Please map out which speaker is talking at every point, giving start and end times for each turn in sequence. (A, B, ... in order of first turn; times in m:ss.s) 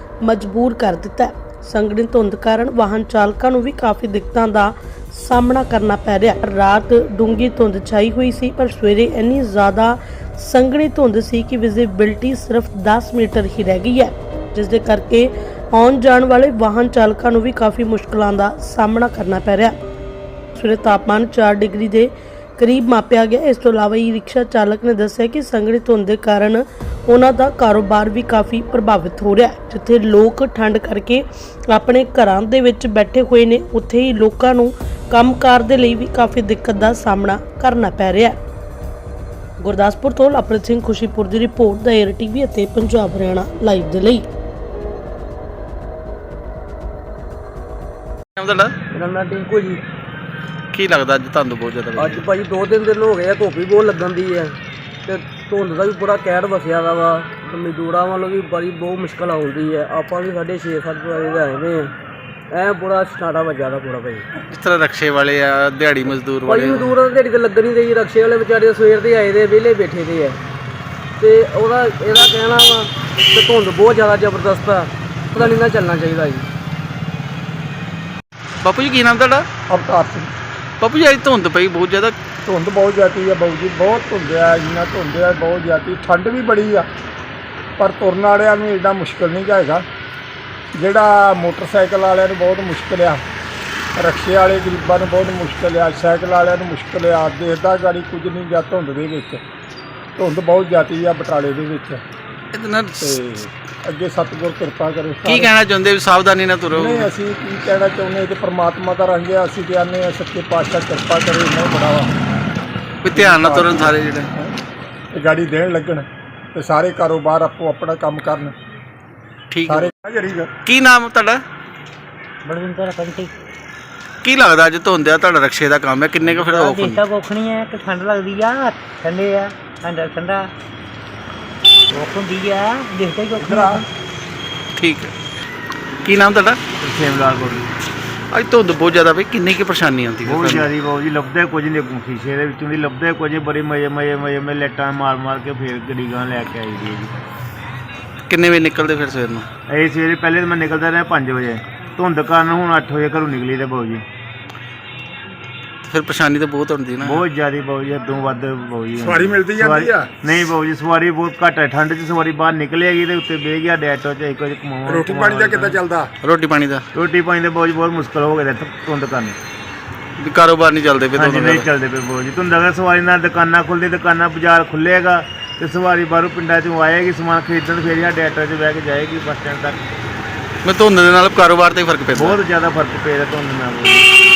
0:00.2-0:19.8 A
0:20.5-0:38.4 A
0:39.6-0:44.2 A
0:48.4-0:48.7 B
0:48.9-0:49.8 C
0:50.7-0:52.2 B
0:52.0-0:54.5 C
0:55.1-1:01.9 C
1:02.5-1:04.2 C
1:04.5-1:06.9 B
1:06.4-1:10.4 C
1:11.2-1:16.4 C
1:18.6-1:19.4 B
1:19.7-1:20.3 D
1:20.8-1:22.1 B
1:22.4-1:26.9 D
1:27.8-1:29.8 D
1:30.7-1:33.2 D
1:34.0-1:39.4 D
1:40.2-1:42.0 D
1:42.5-1:43.2 B
1:43.0-1:45.5 D
1:45.2-1:47.1 B
1:46.7-1:52.1 D
1:53.0-1:54.3 B
1:53.1-1:54.5 D
1:55.1-1:58.5 D
1:59.5-1:59.9 B
1:59.6-2:00.5 D
2:00.6-2:01.4 B
2:02.4-2:03.3 E
2:04.2-2:07.0 B
2:06.4-2:10.5 E
2:11.9-2:13.8 E
2:13.4-2:13.8 D
2:14.8-2:15.1 B
2:16.0-2:16.6 B
2:16.8-2:17.6 F
2:18.3-2:20.7 B
2:20.2-2:27.2 F
2:28.3-2:29.5 B
2:29.7-2:34.0 F
2:35.9-2:37.2 B
2:37.0-2:45.8 F
2:39.0-2:40.1 D
2:44.9-2:46.1 D
2:46.2-2:46.8 B
2:46.9-2:49.4 F
2:50.2-2:51.7 B
2:51.2-2:59.8 F
3:00.6-3:02.4 B
3:02.1-3:04.0 F